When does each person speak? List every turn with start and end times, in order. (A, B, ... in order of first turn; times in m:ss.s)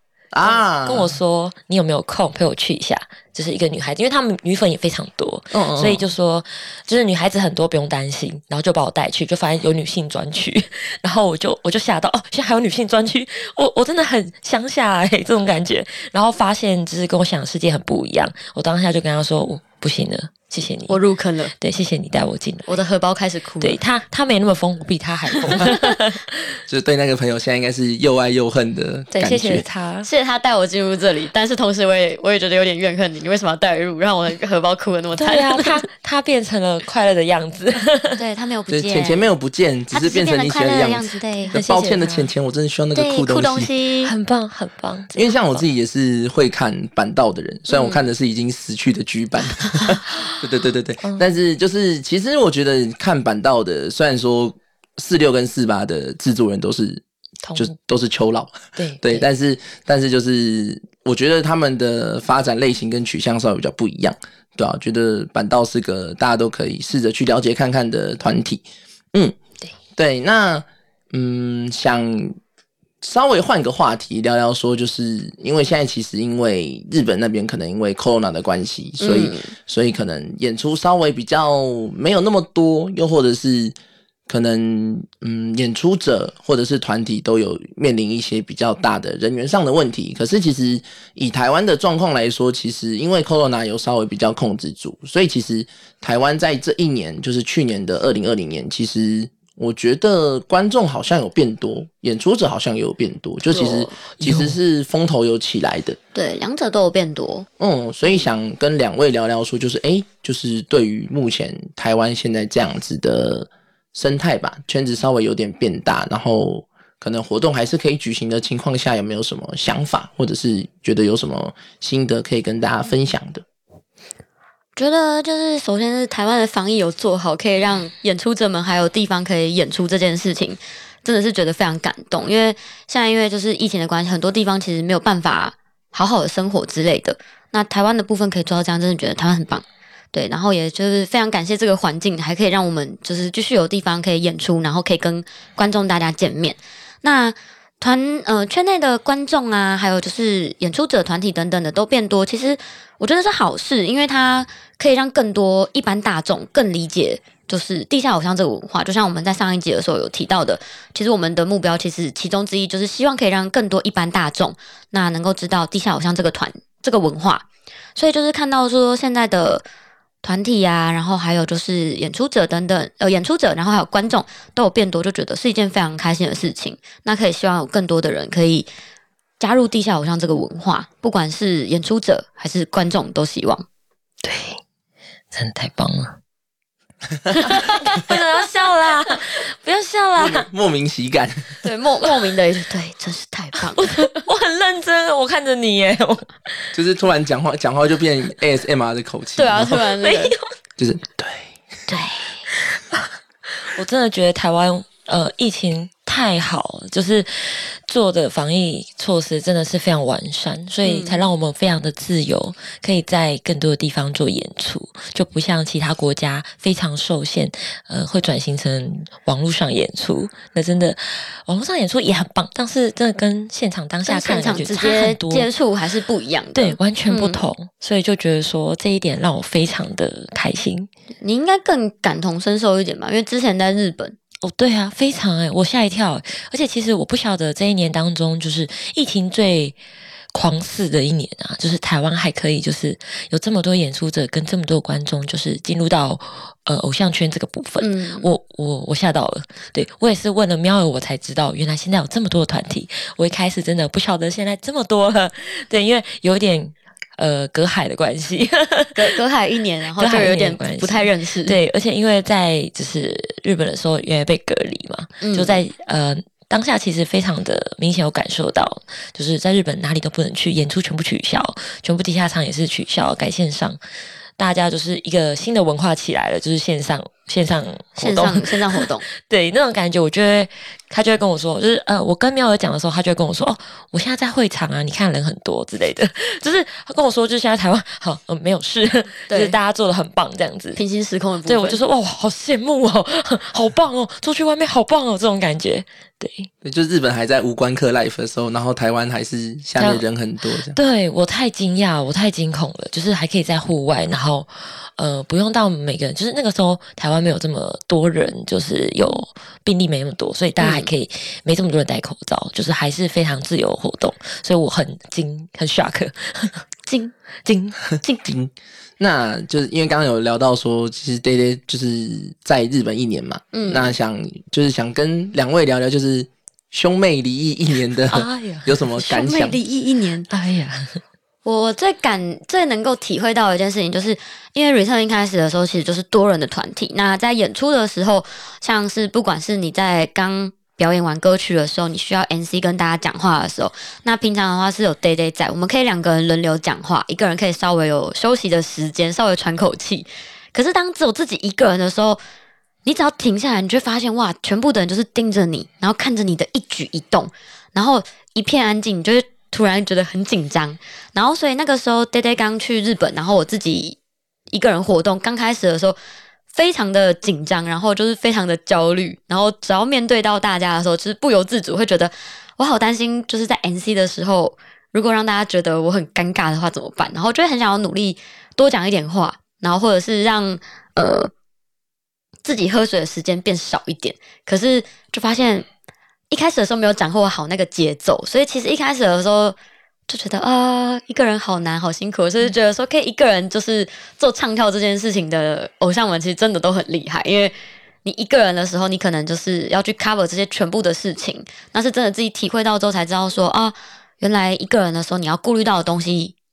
0:00.3-0:01.2 A
0:00.4-0:21.0 B
0:05.5-0:06.0 A
0:20.9-0:21.5 C
0:21.6-0:22.8 B
0:22.7-0:23.8 C
0:23.6-0:26.6 B
0:25.5-0:25.8 C
0:26.7-0:29.6 A
0:29.1-0:30.1 B
0:30.0-0:35.8 C
0:35.2-0:38.2 B
0:38.2-0:39.3 C
0:38.7-0:43.7 A
0:39.9-0:41.6 C
0:41.5-0:42.3 B
0:42.9-0:44.1 C
0:44.0-0:45.6 B
0:45.1-0:57.0 A
0:57.4-0:57.7 B
0:57.6-1:09.4 A
0:58.8-0:59.2 B
1:09.9-1:12.4 A
1:13.0-1:23.8 A
1:19.0-1:19.5 C
1:24.3-1:46.0 A
1:43.5-1:43.9 C
1:44.2-1:44.6 B
1:46.1-1:47.5 C
1:47.6-2:03.4 A
2:04.8-2:47.4 C
2:48.0-2:49.6 C
2:50.2-2:58.7 C
2:59.4-3:03.6 C
3:04.2-3:04.6 B
3:05.3-3:06.2 B
3:07.4-3:10.5 B
3:07.4-3:07.8 C
3:10.2-3:11.5 A
3:11.6-3:14.2 C
3:13.8-3:16.7 B
3:16.7-3:19.8 A
3:19.4-3:20.3 C
3:20.0-3:20.4 B
3:20.8-3:21.5 A
3:21.9-3:45.5 B
3:30.8-3:31.2 C
3:44.0-3:47.4 C
3:46.5-3:50.9 B
3:51.2-3:54.2 C
3:54.4-3:59.8 B
4:00.3-4:19.0 B
4:07.8-4:08.3 C
4:18.9-4:21.5 C
4:20.0-4:33.8 B
4:25.2-4:25.6 C
4:34.4-4:50.8 B
4:38.0-4:39.0 C
4:49.3-4:49.6 C
4:50.8-4:51.8 C
4:51.5-4:56.5 B
4:56.6-5:00.8 A
4:59.8-5:00.0 B
5:00.6-5:16.6 B
5:10.6-5:10.9 C
5:16.9-5:17.1 C
5:17.4-5:17.8 B
5:18.2-5:29.6 A
5:23.5-5:23.9 C
5:28.1-5:28.7 B
5:29.0-5:30.3 C
5:30.3-5:31.0 B
5:31.4-5:52.2 C
5:52.8-6:04.0 C
6:04.5-6:06.0 C
6:06.5-6:21.3 C
6:22.4-6:25.6 C
6:26.3-6:29.6 C
6:30.1-6:37.5 C
6:38.0-6:46.3 C